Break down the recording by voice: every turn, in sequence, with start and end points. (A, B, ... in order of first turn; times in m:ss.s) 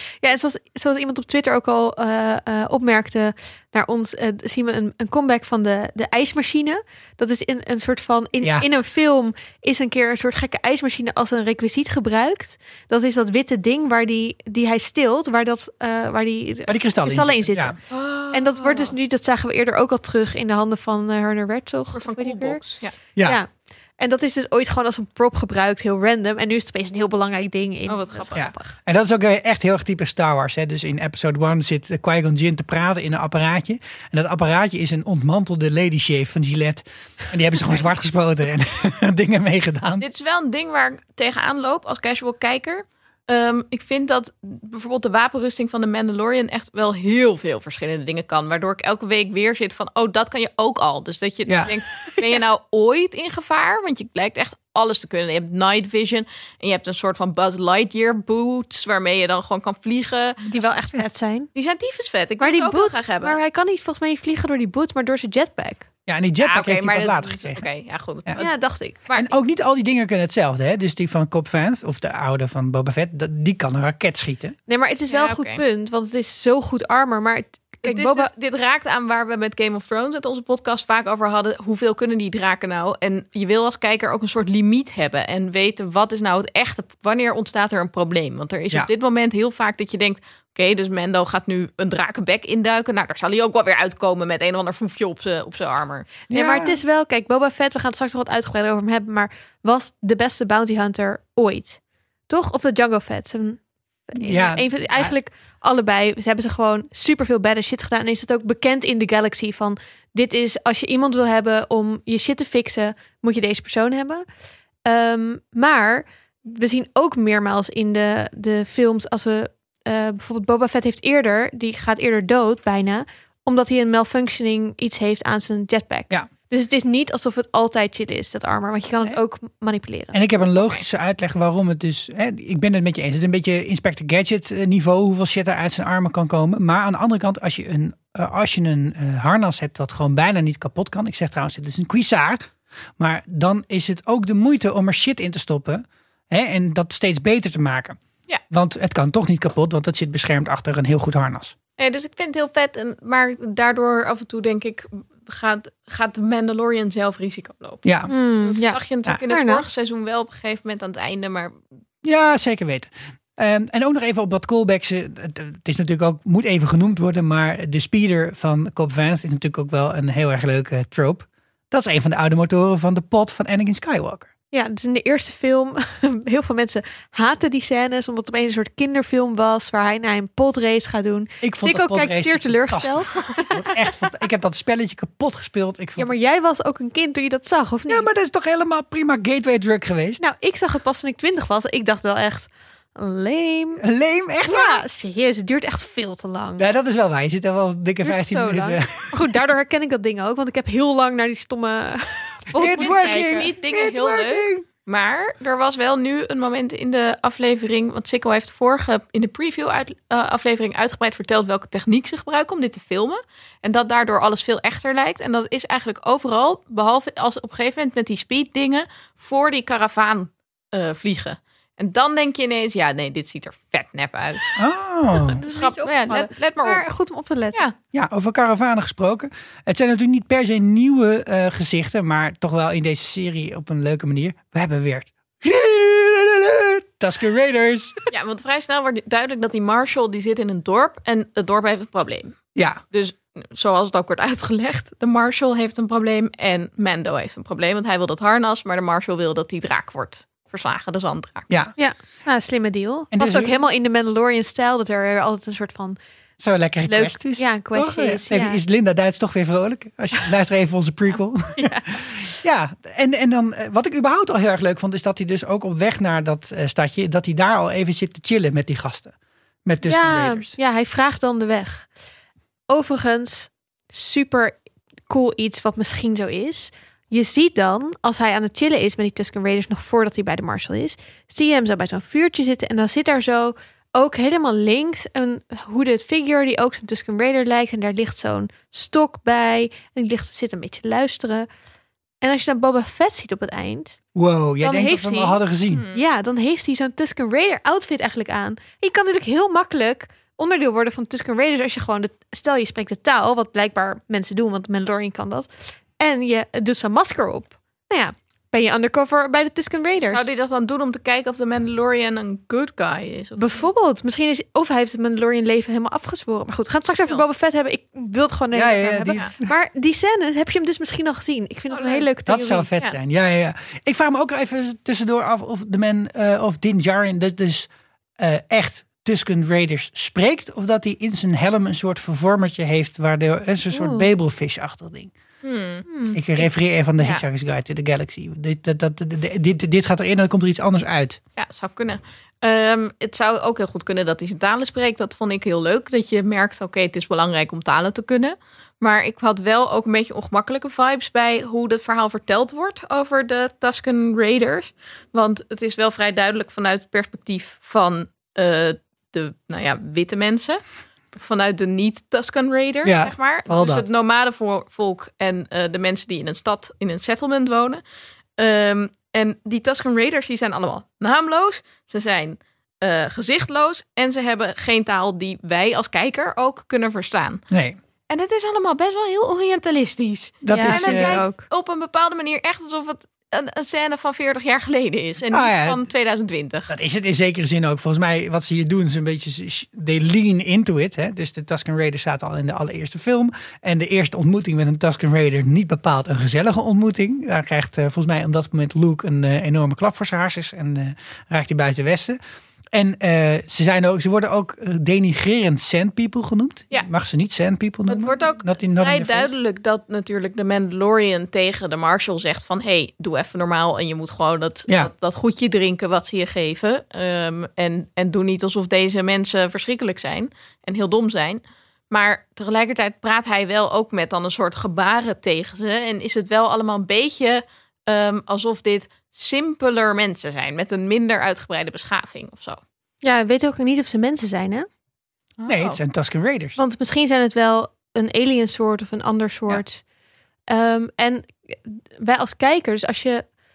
0:00.2-0:17.8 A
0:08.4-0:08.7 B
0:16.7-0:17.8 B
0:17.9-0:18.9 C
0:18.3-0:22.6 A
0:21.9-0:23.0 C
0:23.2-0:28.7 A
0:27.9-0:28.5 C
0:28.4-0:40.0 B
0:40.0-1:00.4 C
1:00.5-1:01.5 A
1:00.5-1:01.0 B
1:01.6-1:03.4 C
1:02.4-1:05.9 A
1:06.1-1:07.6 B
1:06.4-1:09.3 C
1:08.4-1:08.9 A
1:09.1-1:14.6 B
1:14.7-1:18.3 A
1:15.1-1:15.6 C
1:17.8-1:36.2 C
1:36.3-1:43.6 A
1:36.3-1:36.8 B
1:44.1-1:54.2 A
1:44.2-1:45.1 B
1:54.8-2:10.2 A
2:10.1-2:22.4 B
2:23.0-2:28.0 B
2:28.5-2:31.6 B
2:31.8-2:37.8 C
2:37.8-2:38.1 B
2:38.1-2:39.6 A
2:38.4-2:41.5 C
2:42.0-2:54.3 B
2:54.5-3:04.1 A
3:01.4-3:06.1 B
3:06.0-3:08.1 A
3:07.9-3:10.2 B
3:10.2-3:13.8 A
3:13.8-3:14.8 B
3:14.4-3:16.7 A
3:16.6-3:19.2 B
3:18.0-3:23.5 A
3:22.6-3:24.6 B
3:22.6-3:44.5 C
3:44.6-3:45.4 B
3:45.3-3:46.8 C
3:45.3-3:47.6 A
3:47.9-3:58.0 B
3:58.1-4:02.4 C
4:02.6-4:02.8 B
4:02.9-4:11.5 C
4:11.8-4:16.0 A
4:13.1-4:13.6 B
4:16.4-4:29.1 B
4:16.8-4:18.6 A
4:21.6-4:21.9 A
4:29.6-4:30.6 B
4:29.8-4:31.9 A
4:32.7-4:51.5 A
4:52.2-4:54.0 A
4:54.2-4:55.8 B
4:54.6-4:55.4 A
4:55.7-4:56.0 C
4:55.9-5:10.2 A
5:10.1-5:13.6 C
5:13.4-5:22.7 A
5:18.5-5:19.3 B
5:21.7-5:22.1 C
5:22.3-5:35.1 B
5:33.7-5:34.1 A
5:35.4-5:35.9 C
5:35.9-5:36.2 A
5:36.1-5:41.2 B
5:41.4-6:00.6 C
6:01.1-6:07.8 C
6:02.8-6:03.8 B
6:08.4-6:17.4 C
6:17.5-6:17.8 B
6:18.1-6:26.7 C
6:20.4-6:21.2 B
6:20.5-6:21.4 A
6:25.3-6:25.9 B
6:26.7-6:42.2 B
6:42.7-6:49.3 B
6:47.9-7:12.6 C
7:13.0-7:14.7 A
7:15.4-7:15.8 C
7:15.5-7:16.6 B
7:16.6-7:19.8 A
7:20.5-7:23.3 A